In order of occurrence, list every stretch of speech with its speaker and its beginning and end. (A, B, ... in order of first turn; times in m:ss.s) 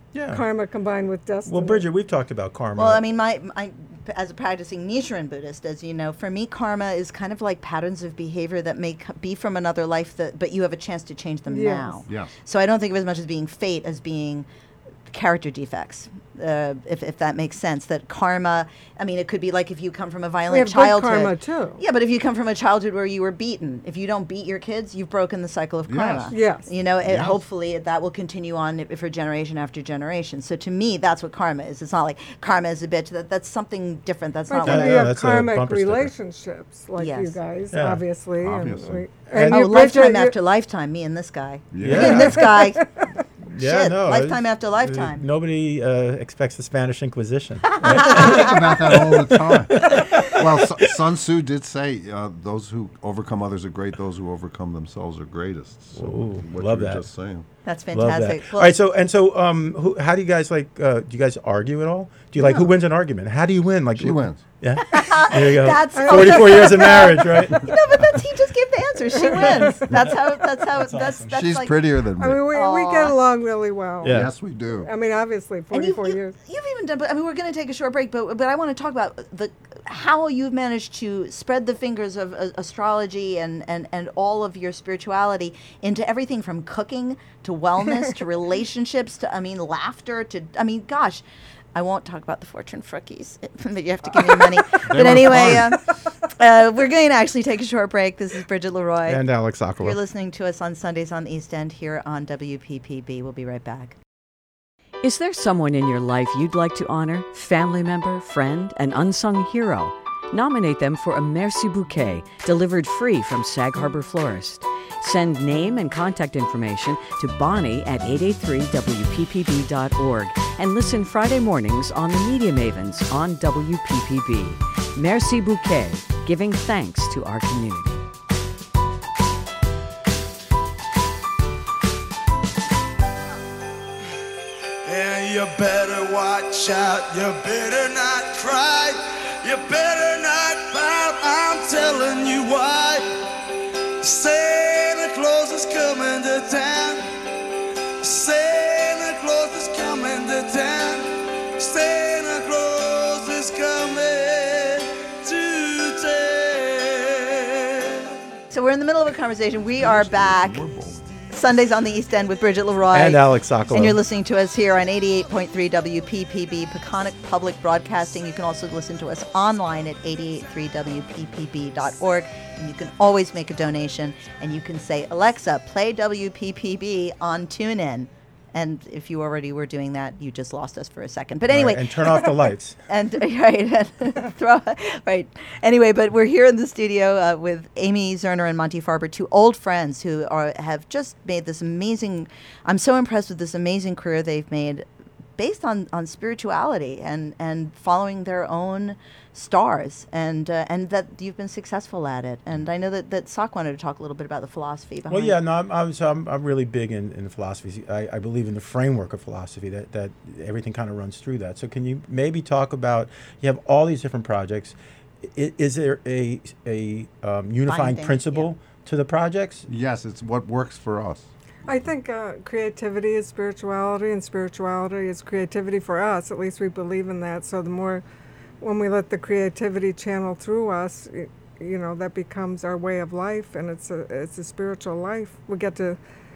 0:00.1-0:00.4 A
0:00.3-0:01.8 B
0:01.5-0:03.0 A
0:02.8-0:14.5 C
0:11.5-0:12.0 B
0:12.1-0:12.3 D
0:15.1-0:35.1 C
0:20.5-0:21.8 B
0:25.9-0:26.3 D
0:26.3-0:26.7 B
0:27.0-0:27.4 D
0:34.5-0:40.3 B
0:34.6-0:36.1 A
0:37.0-0:37.4 C
0:37.7-0:38.0 A
0:38.4-0:39.0 D
0:39.3-0:39.7 A
0:39.4-0:42.9 C
0:41.7-0:42.4 D
0:41.8-0:42.5 A
0:41.9-0:42.9 B
0:43.5-0:50.4 A
0:43.6-0:45.2 C
0:47.7-0:48.5 C
0:47.8-0:57.4 D
0:56.0-0:57.0 A
0:57.6-0:58.7 C
0:57.9-1:07.8 A
1:04.0-1:04.4 D
1:04.8-1:11.8 C
1:05.9-1:07.1 B
1:09.3-1:09.7 B
1:09.6-1:11.4 A
1:11.3-1:12.5 D
1:12.2-1:14.2 B
1:12.5-1:13.2 C
1:14.0-1:14.3 A
1:14.0-1:14.9 D
1:14.8-1:16.3 B
1:15.7-1:31.2 C
1:31.7-1:39.2 C
1:34.8-1:35.8 D
1:39.0-1:40.0 A
1:39.8-1:44.0 C
1:45.0-2:08.0 E
2:14.8-2:23.1 F
2:24.0-2:27.1 F
2:28.0-2:38.1 F
2:38.5-2:40.6 C
2:39.8-2:41.3 D
2:41.3-3:02.3 C
2:42.9-2:44.0 A
3:01.5-3:02.8 A
3:02.9-3:14.8 C
3:15.4-3:25.4 C
3:25.1-3:39.7 A
3:37.6-3:38.5 C
3:39.7-3:41.3 D
3:41.7-3:48.0 B
3:48.6-3:56.0 B